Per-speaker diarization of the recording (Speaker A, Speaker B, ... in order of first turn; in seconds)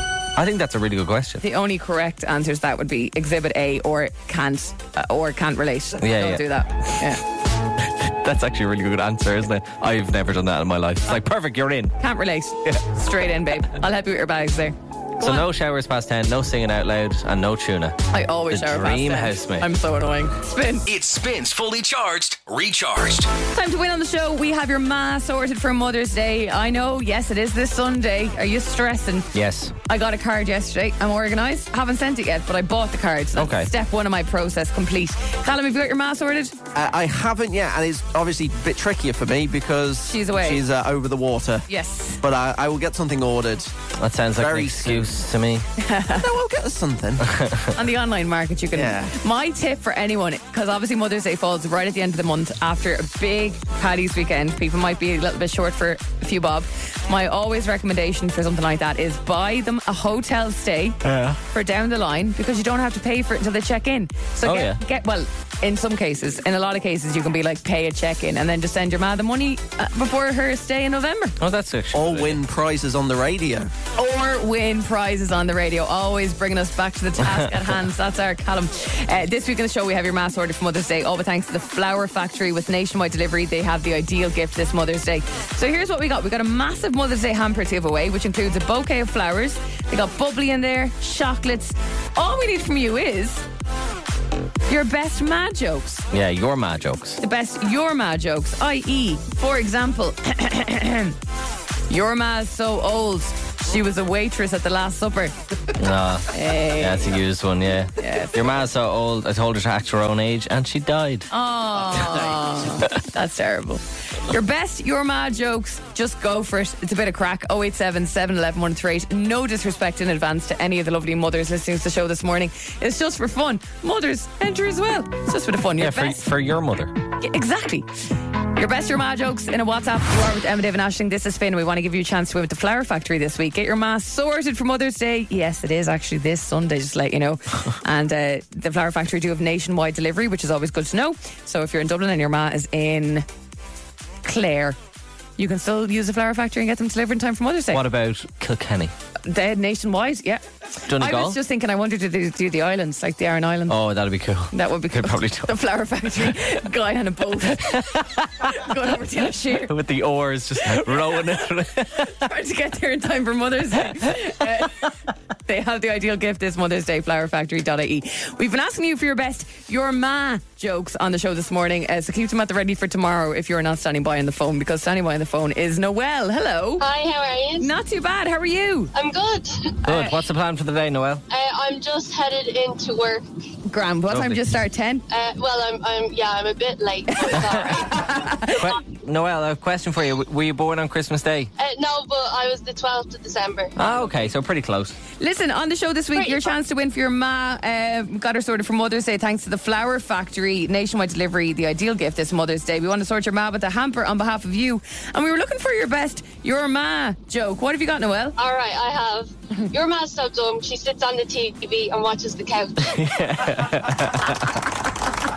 Speaker A: 0.3-1.4, 6.0-7.2, 7.8-11.9, 15.2-18.0, 18.5-19.7, 29.3-29.7, 33.4-33.7, 44.0-45.6, 47.2-47.7, 61.0-61.4, 64.4-64.8, 71.4-72.4, 96.1-97.2, 105.8-111.3, 125.8-126.9, 147.7-148.9, 150.9-151.4, 153.7-155.6, 157.6-158.6, 159.7-162.2, 179.8-181.2, 184.1-184.4, 187.3-187.7, 188.4-191.5, 193.8-194.9, 212.8-214.6
Speaker B: 1.4-7.2, 12.0-15.4, 18.1-20.9, 23.5-29.3, 29.9-36.5, 40.0-40.6, 41.7-42.2, 45.8-46.3, 47.7-71.3, 74.0-93.4, 94.7-96.0, 97.2-101.1, 101.9-105.3, 106.3-107.1, 108.0-108.5, 111.3-126.3, 127.2-127.9, 128.5-143.2, 144.2-144.8, 145.4-147.8, 149.2-153.8, 154.5-159.7, 160.7-161.3, 162.0-164.9, 165.4-176.8, 177.6-178.9, 179.8-180.1, 183.7-185.0, 187.1-188.7, 195.2-208.3
Speaker C: 20.9-23.3
Speaker D: 36.7-41.6, 42.2-43.7, 44.4-45.1, 46.1-47.3, 48.7-49.1, 71.9-73.7
Speaker E: 176.8-177.7, 178.9-179.8, 181.3-183.2, 185.1-188.1, 191.6-194.1, 196.1-196.5, 208.4-213.1